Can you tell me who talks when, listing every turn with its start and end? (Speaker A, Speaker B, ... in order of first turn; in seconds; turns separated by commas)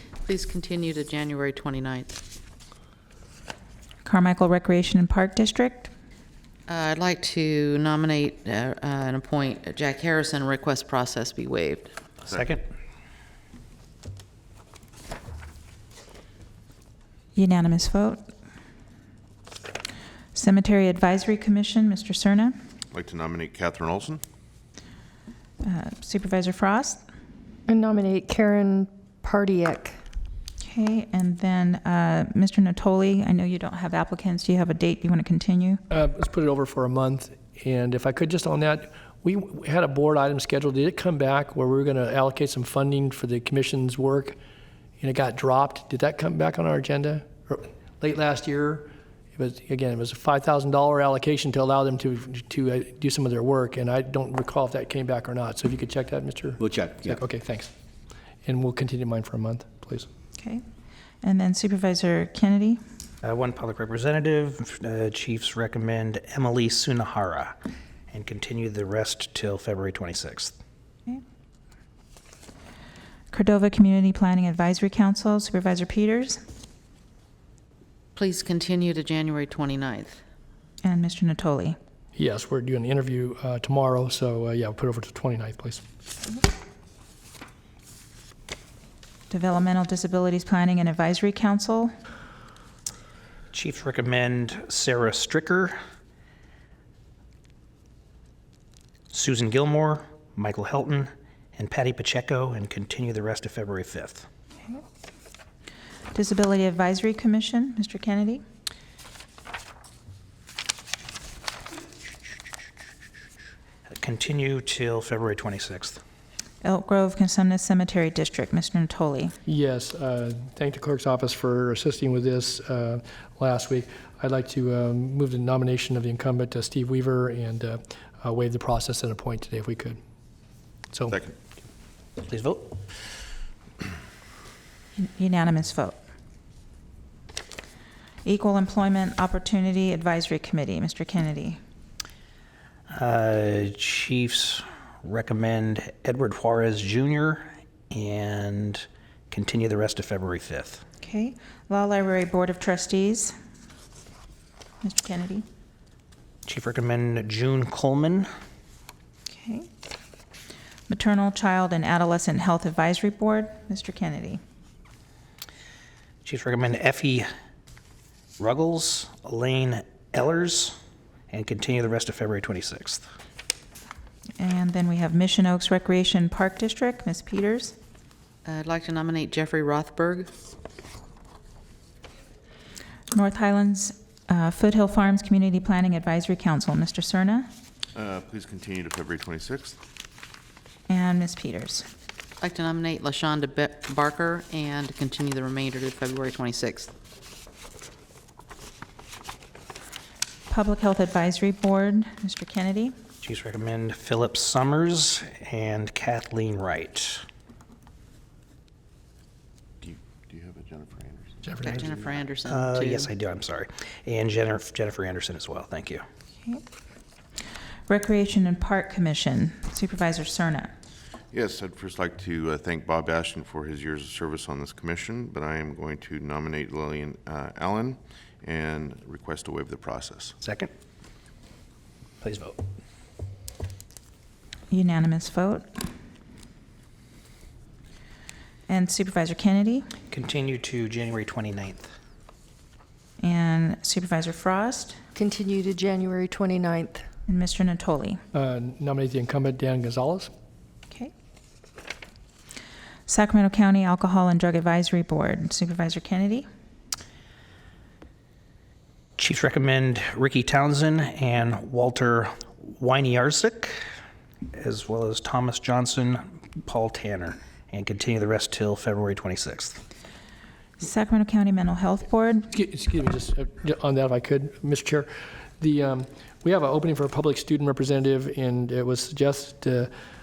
Speaker A: 0.2-2.1, Speaker B: 4.0-5.9, Speaker A: 6.7-11.9, Speaker C: 12.3-12.7, Speaker B: 17.3-18.2, Speaker B: 20.3-22.6, Speaker D: 22.9-24.2, Speaker B: 25.6-27.0, Speaker E: 29.2-29.6, Speaker B: 30.6-35.8, Speaker F: 35.9-44.4, Speaker F: 45.0-57.7, Speaker E: 56.6-57.2, Speaker F: 58.4-60.1, Speaker B: 61.2-62.8, Speaker C: 63.2-67.5, Speaker C: 68.1-70.6, Speaker B: 73.3-76.4, Speaker A: 78.2-80.2, Speaker B: 80.8-81.8, Speaker F: 82.2-85.8, Speaker B: 89.3-91.9, Speaker C: 93.5-95.8, Speaker C: 99.1-104.2, Speaker B: 106.1-108.4, Speaker C: 113.8-116.0, Speaker B: 116.6-119.3, Speaker F: 119.5-130.0, Speaker F: 130.9-131.2, Speaker C: 132.2-132.8, Speaker B: 134.9-135.9, Speaker B: 138.2-141.6, Speaker C: 142.9-150.8, Speaker B: 151.0-153.3, Speaker B: 154.8-155.4, Speaker C: 156.4-158.3, Speaker B: 159.3-159.7, Speaker B: 160.9-164.4, Speaker C: 166.2-167.3, Speaker C: 168.4-170.8, Speaker C: 171.3-173.0, Speaker B: 174.4-177.8, Speaker A: 178.4-180.3, Speaker B: 183.1-187.5, Speaker D: 187.9-189.8, Speaker B: 190.9-191.8, Speaker A: 192.4-196.9, Speaker B: 200.5-202.9, Speaker C: 203.2-207.2, Speaker D: 209.8-212.2, Speaker F: 211.4-211.9, Speaker A: 211.6-213.1, Speaker C: 212.4-216.0, Speaker B: 217.9-220.7, Speaker D: 221.3-230.4, Speaker C: 230.4-230.7, Speaker C: 232.2-232.6, Speaker B: 234.7-235.7, Speaker B: 238.7-239.9, Speaker C: 240.1-241.9, Speaker B: 243.2-244.9, Speaker E: 245.2-246.8, Speaker B: 247.3-248.2, Speaker F: 248.3-250.3, Speaker B: 253.1-256.4, Speaker C: 259.2-263.8, Speaker C: 264.5-269.8, Speaker B: 270.8-272.5, Speaker F: 272.5-279.9